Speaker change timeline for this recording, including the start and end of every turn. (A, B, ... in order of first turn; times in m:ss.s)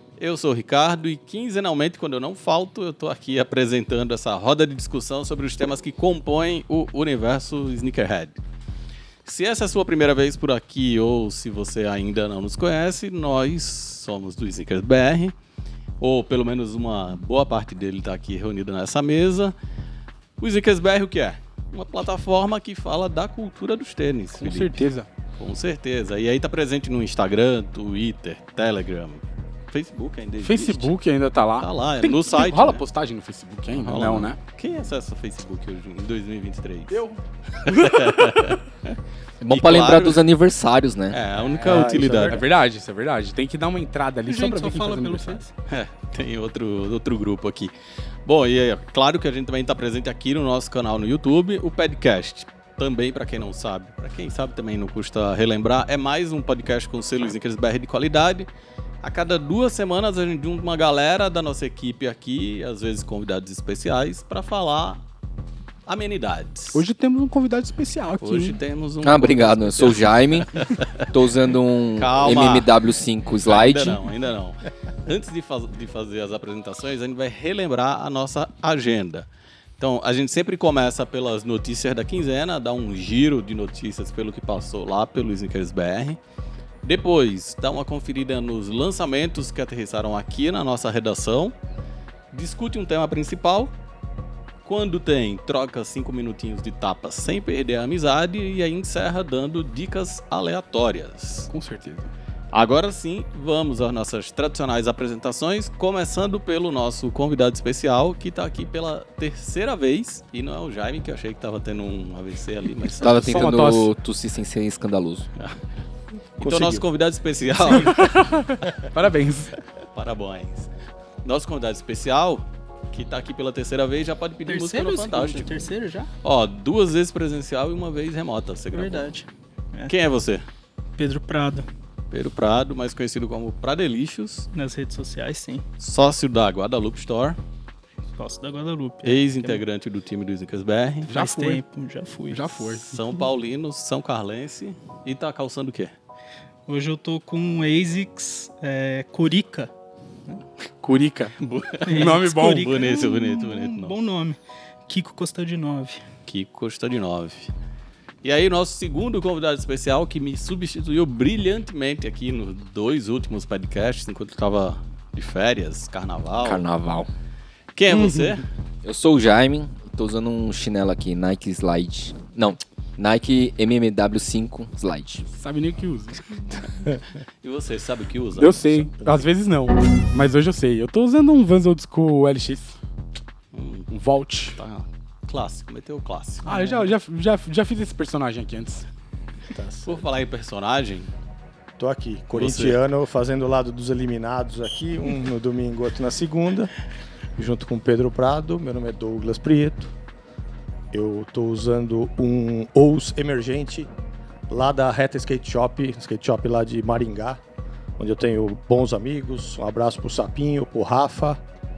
0:00.2-0:08.4 A
0:09.2-0:15.3 A
0:16.0-0:19.5 A
0:20.4-0:24.8 A
0:24.4-0:25.1 B
0:25.4-0:30.9 A
0:30.4-0:34.4 B
0:31.6-0:32.8 A
0:33.7-0:37.0 A
0:36.9-0:38.5 B
0:37.6-0:38.9 A
0:39.4-0:41.2 C
0:39.5-0:40.2 A
0:41.1-0:42.4 A
0:41.6-0:45.4 B
0:41.6-0:42.5 D
0:44.2-0:45.5 E
0:45.7-0:47.7 A
0:48.2-0:58.5 A
0:59.0-1:05.0 A
1:05.9-1:06.8 A
1:06.7-1:08.6 B
1:08.2-1:11.1 A
1:09.0-1:14.0 C
1:12.0-1:12.7 A
1:13.4-1:19.2 A
1:19.8-1:26.2 A
1:26.8-1:31.5 A
1:32.3-1:33.7 A
1:34.6-1:41.5 A
1:41.5-1:42.1 B
1:42.5-1:53.6 A
1:53.0-1:55.3 C
1:53.1-1:53.9 B
1:56.4-1:58.1 A
1:56.4-1:56.8 D
1:57.6-1:59.6 B
1:59.9-2:00.7 A
2:01.2-2:05.6 A
2:04.5-2:06.1 E
2:06.2-2:09.1 A
2:08.7-2:09.9 E
2:09.9-2:10.4 A
2:11.0-2:11.6 E
2:12.1-2:14.5 A
2:14.5-2:15.6 E
2:15.8-2:17.4 A
2:18.1-2:19.6 E
2:19.0-2:21.1 A
2:21.1-2:21.6 B
2:21.1-2:22.8 E
2:22.3-2:23.0 B
2:22.8-2:25.9 A
2:26.7-2:29.7 E
2:30.8-2:31.3 B
2:31.4-2:34.0 A
2:31.8-2:36.0 E
2:31.9-2:32.7 B
2:36.3-2:37.5 A
2:38.2-2:46.6 A
2:46.4-2:47.1 C
2:47.7-2:48.4 A
2:47.9-2:48.4 B
2:48.8-2:55.3 C
2:55.3-2:56.6 B
2:57.4-2:58.9 A
2:58.4-3:02.8 B
3:03.5-3:03.9 A
3:03.9-3:04.6 B
3:04.6-3:06.5 A
3:06.4-3:08.8 B
3:06.5-3:06.8 E
3:09.5-3:10.0 D
3:09.8-3:11.1 A
3:11.8-3:16.7 D
3:12.3-3:12.8 A
3:17.4-3:19.9 D
3:20.9-3:23.9 D
3:24.5-3:27.4 D
3:28.0-3:31.4 D